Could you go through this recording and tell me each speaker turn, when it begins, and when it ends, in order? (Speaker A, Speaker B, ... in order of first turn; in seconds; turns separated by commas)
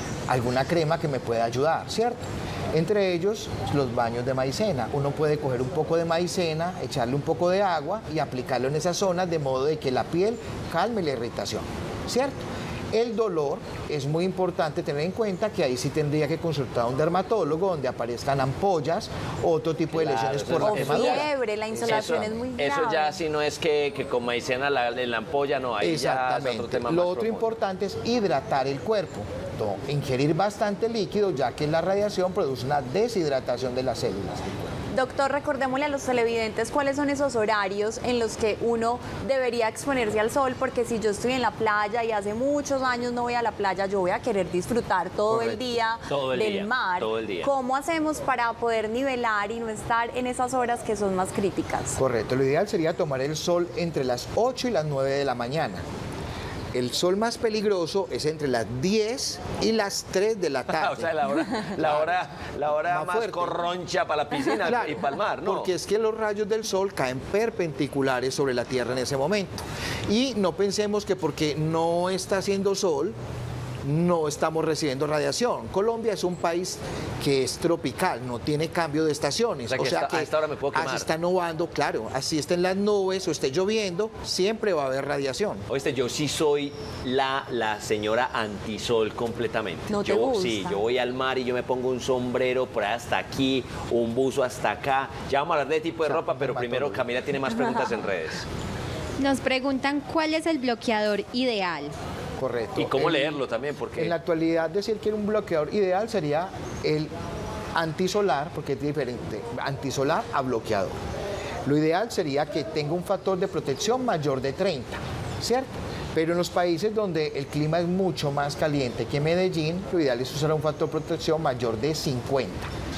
Speaker A: 0.3-22.4, Speaker B: 19.9-27.5, Speaker C: 20.6-23.2, Speaker A: 25.8-34.7, Speaker C: 34.9-52.0, Speaker A: 45.3-45.7, Speaker B: 46.1-47.5, Speaker A: 52.0-55.8, Speaker A: 56.7-61.1, Speaker B: 60.7-65.7, Speaker A: 61.8-62.1, Speaker A: 62.9-63.6, Speaker A: 64.6-73.1, Speaker A: 73.8-85.6, Speaker B: 79.7-81.1, Speaker B: 85.7-98.4, Speaker C: 89.9-90.8, Speaker A: 96.0-97.0, Speaker D: 99.2-101.9, Speaker A: 102.4-103.4, Speaker B: 102.8-104.1, Speaker A: 104.0-107.1, Speaker A: 107.7-110.9, Speaker A: 111.7-122.7